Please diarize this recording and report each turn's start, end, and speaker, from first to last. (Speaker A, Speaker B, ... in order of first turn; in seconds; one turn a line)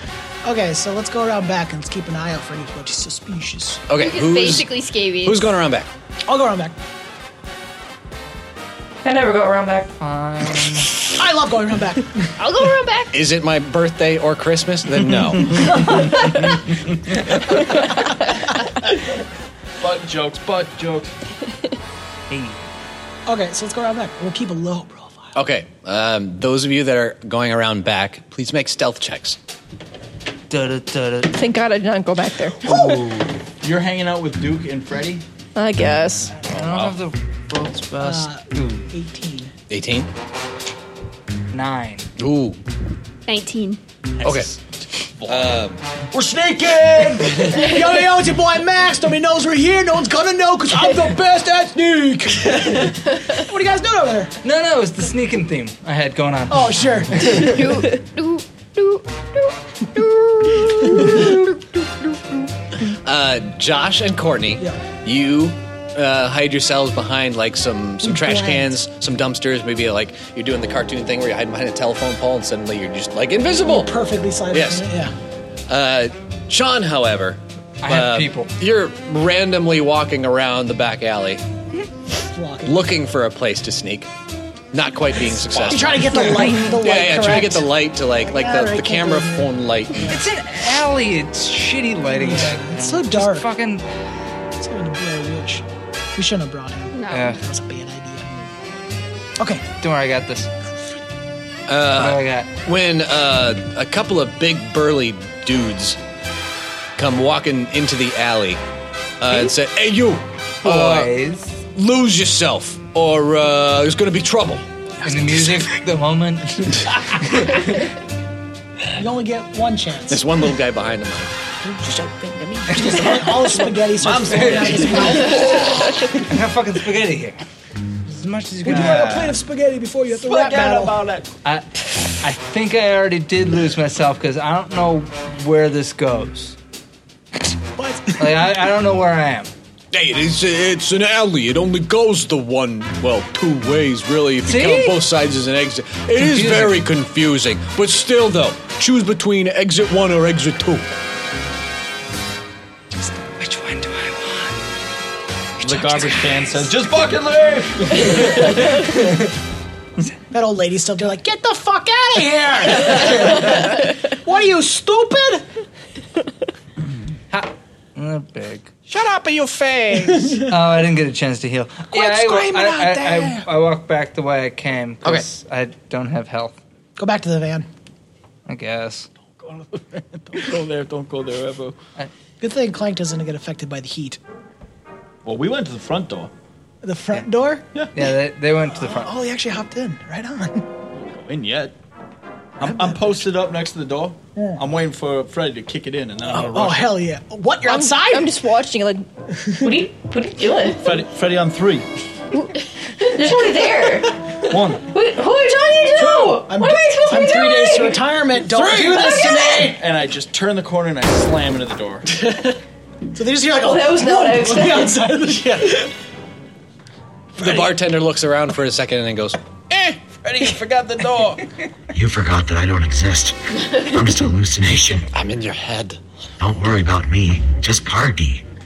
Speaker A: 0.4-3.8
Speaker B: 3.9-4.7
Speaker C: 4.0-5.5
Speaker B: 5.2-5.9
Speaker A: 6.3-6.8
Speaker D: 9.0-9.9
Speaker E: 10.0-10.9
Speaker A: 11.1-12.3
Speaker C: 12.4-13.2
Speaker B: 13.1-15.8
Speaker A: 15.7-16.1
Speaker F: 19.8-21.1
Speaker E: 22.3-22.6
Speaker A: 23.3-25.3
Speaker B: 25.4-29.4
Speaker E: 30.5-31.4
Speaker G: 31.3-33.0
Speaker F: 32.7-35.2
Speaker E: 32.7-33.2
Speaker G: 35.5-36.3
Speaker E: 36.5-38.9
Speaker A: 38.0-39.5
Speaker B: 39.7-40.1
Speaker E: 41.5-42.1
Speaker B: 42.2-42.6
Speaker C: 43.3-43.8
Speaker B: 44.2-44.5
Speaker F: 45.2-45.5
Speaker B: 45.2-45.8
Speaker F: 46.1-47.6
Speaker A: 47.4-54.3
Speaker E: 54.4-56.8
Speaker A: 56.5-57.7
Speaker C: 57.3-61.6
Speaker A: 60.7-61.2
Speaker B: 62.9-73.9
Speaker A: 68.0-68.8
Speaker A: 73.6-75.2
Speaker B: 74.5-74.9
Speaker B: 75.7-81.4
Speaker E: 77.8-78.5
Speaker A: 82.2-82.8
Speaker B: 82.6-84.1
Speaker B: 84.7-90.2
Speaker A: 85.7-90.2
Speaker E: 90.1-93.9
Speaker A: 92.1-93.5
Speaker A: 94.5-98.3
Speaker C: 96.9-97.4
Speaker E: 97.1-97.4
Speaker A: 99.4-99.6
Speaker E: 99.8-100.5
Speaker B: 101.7-106.0
Speaker E: 101.9-102.5
Speaker B: 107.0-108.6
Speaker B: 109.2-111.1
Speaker E: 110.6-111.6
Speaker B: 111.7-114.7
Speaker E: 115.0-117.6
Speaker A: 119.0-120.2
Speaker B: 120.1-121.3
Speaker G: 121.8-122.8
Speaker A: 122.7-125.9
Speaker B: 124.0-125.2
Speaker E: 124.2-127.4
Speaker E: 128.1-129.4
Speaker A: 128.7-131.0
Speaker F: 128.7-129.1
Speaker F: 130.1-131.3
Speaker E: 131.4-136.6
Speaker A: 137.8-138.4
Speaker E: 138.2-139.5
Speaker B: 139.9-150.8
Speaker E: 144.4-145.0
Speaker E: 146.2-146.9
Speaker E: 153.2-154.6
Speaker F: 155.6-158.9
Speaker A: 160.3-165.4
Speaker E: 167.3-168.7
Speaker B: 168.9-170.4
Speaker A: 170.0-170.5
Speaker E: 170.5-176.6
Speaker A: 171.9-173.5
Speaker A: 177.0-177.7
Speaker E: 178.5-179.1
Speaker F: 179.4-181.8
Speaker A: 182.4-184.2
Speaker F: 185.2-186.3
Speaker A: 186.8-187.7
Speaker E: 187.9-189.1
Speaker A: 188.7-190.7
Speaker F: 190.9-191.8
Speaker F: 192.6-197.0
Speaker A: 192.7-193.3
Speaker A: 196.3-198.4
Speaker G: 197.7-199.1
Speaker A: 199.5-199.8
Speaker D: 199.6-200.9
Speaker F: 200.8-201.9
Speaker D: 203.0-208.1
Speaker F: 204.4-204.9
Speaker A: 206.0-209.8
Speaker F: 208.5-212.1
Speaker D: 208.9-209.5
Speaker A: 213.1-215.9
Speaker D: 213.6-215.0
Speaker B: 215.4-215.8
Speaker B: 217.4-219.4
Speaker F: 219.8-221.5
Speaker H: 221.9-225.1
Speaker B: 225.1-226.0
Speaker H: 226.4-228.4